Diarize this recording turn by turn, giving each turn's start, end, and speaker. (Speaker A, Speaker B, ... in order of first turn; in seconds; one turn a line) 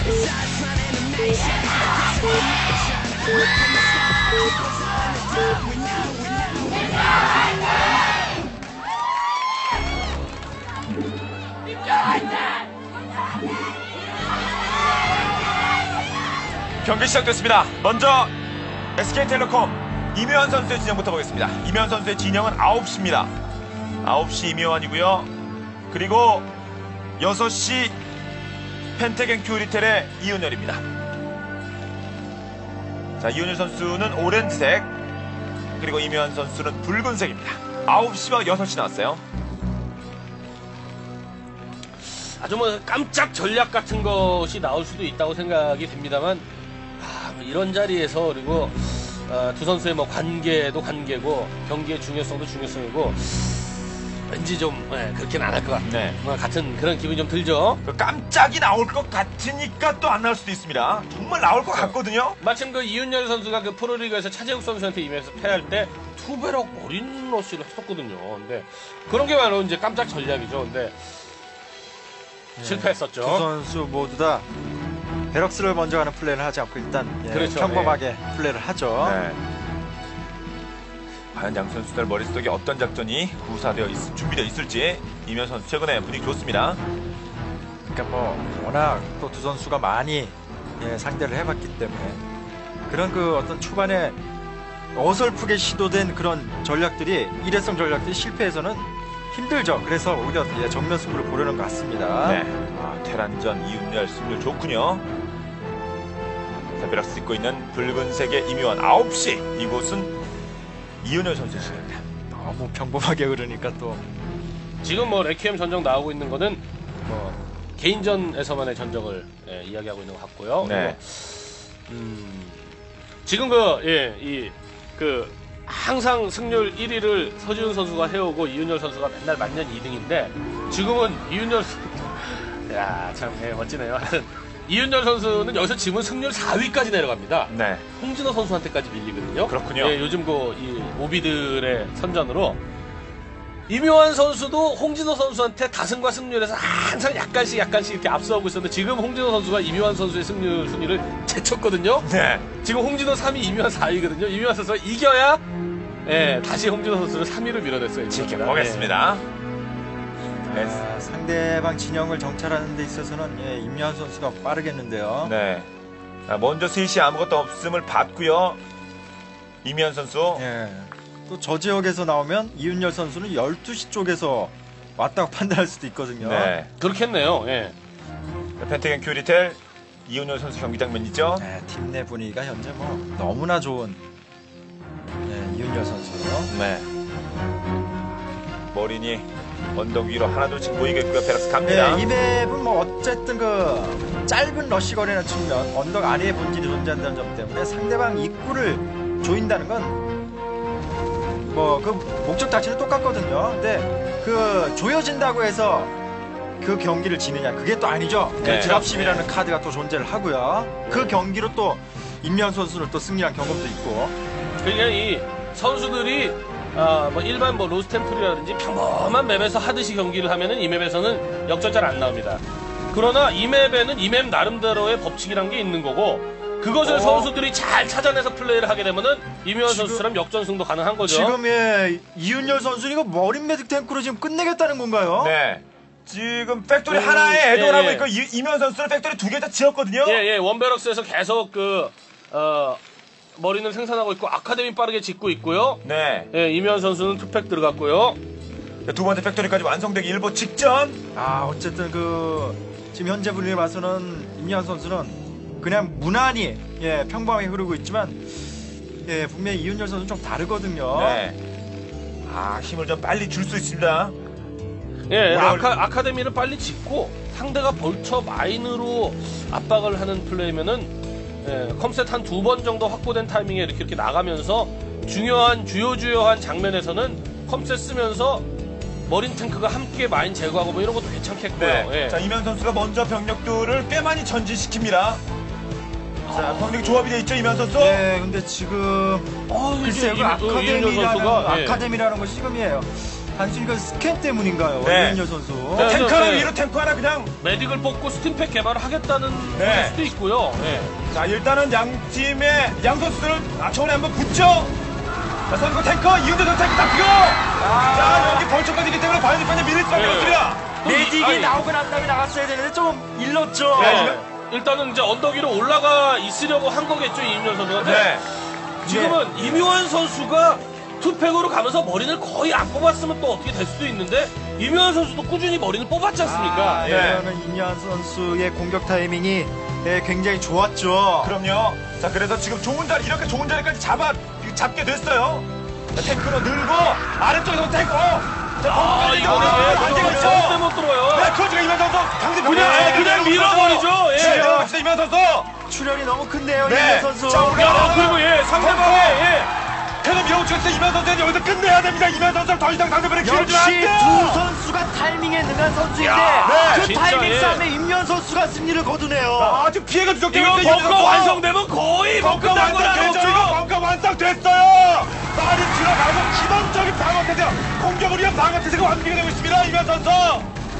Speaker A: 16.8-18.3
Speaker A: 19.0-23.3
Speaker A: 24.0-25.3
Speaker A: 25.9-26.5
Speaker A: 27.2-28.0
Speaker A: 29.0-30.8
Speaker A: 33.2-34.9
Speaker A: 35.8-39.2
Speaker B: 42.4-46.5
Speaker B: 47.0-57.8
Speaker A: 55.9-56.2
Speaker A: 57.9-62.4
Speaker B: 61.7-71.0
Speaker C: 72.6-74.5
Speaker B: 72.6-73.5
Speaker C: 75.3-79.2
Speaker B: 77.3-78.0
Speaker A: 79.0-79.4
Speaker A: 81.3-86.8
Speaker C: 87.9-92.2
Speaker C: 92.9-94.2
Speaker C: 94.9-102.4
Speaker A: 102.2-105.1
Speaker A: 106.8-110.2
Speaker A: 111.0-112.0
Speaker C: 112.3-114.0
Speaker B: 114.8-122.7
Speaker A: 120.6-121.0
Speaker B: 123.2-142.6
Speaker A: 137.5-137.8
Speaker A: 139.5-140.0
Speaker B: 143.7-152.1
Speaker A: 152.1-152.4
Speaker B: 152.6-155.4
Speaker B: 156.1-158.9
Speaker A: 158.1-159.2
Speaker C: 160.4-165.3
Speaker A: 160.5-160.8
Speaker A: 165.2-165.7
Speaker A: 166.3-168.6
Speaker A: 169.6-170.4
Speaker C: 170.3-176.6
Speaker A: 176.2-176.7
Speaker B: 176.8-177.8
Speaker A: 178.6-181.5
Speaker C: 181.4-184.0
Speaker C: 185.2-186.5
Speaker A: 186.5-186.9
Speaker A: 188.7-192.1
Speaker C: 191.6-200.0
Speaker C: 201.4-205.9
Speaker C: 206.6-214.2
Speaker A: 208.4-209.2
Speaker B: 210.9-211.2
Speaker B: 214.6-231.4
Speaker C: 226.8-227.3
Speaker C: 229.6-230.1
Speaker C: 231.0-235.3
Speaker A: 235.2-240.2
Speaker B: 236.9-238.1
Speaker B: 240.0-242.8
Speaker B: 243.4-248.2
Speaker A: 245.8-246.3
Speaker A: 248.9-251.0
Speaker C: 251.1-261.2
Speaker A: 260.9-261.4
Speaker A: 262.2-264.1
Speaker B: 265.1-278.5
Speaker A: 265.3-265.7
Speaker B: 279.1-282.2
Speaker A: 281.6-285.2
Speaker A: 286.3-288.0
Speaker C: 286.3-286.6
Speaker C: 287.7-296.0
Speaker B: 289.5-291.9
Speaker A: 294.8-295.2
Speaker A: 295.7-297.3
Speaker B: 295.8-296.5
Speaker B: 297.4-300.9
Speaker A: 299.6-300.0
Speaker A: 301.1-304.7
Speaker A: 305.5-310.6
Speaker C: 307.6-308.5
Speaker B: 309.9-311.6
Speaker C: 310.8-314.1
Speaker A: 313.8-314.2
Speaker B: 313.8-318.2
Speaker A: 317.8-318.2
Speaker B: 318.8-326.9
Speaker C: 318.8-319.7
Speaker C: 326.2-331.3
Speaker A: 326.9-327.2
Speaker A: 331.2-345.5
Speaker B: 338.6-341.3
Speaker C: 339.2-340.4
Speaker B: 342.4-344.6
Speaker C: 342.5-343.2
Speaker C: 344.2-344.7
Speaker C: 345.7-347.9
Speaker A: 346.6-349.2
Speaker B: 347.6-349.5
Speaker A: 350.0-354.4
Speaker C: 353.2-359.7
Speaker B: 356.0-357.6
Speaker A: 356.4-356.9
Speaker A: 359.4-361.4
Speaker B: 360.3-363.6
Speaker A: 362.2-370.5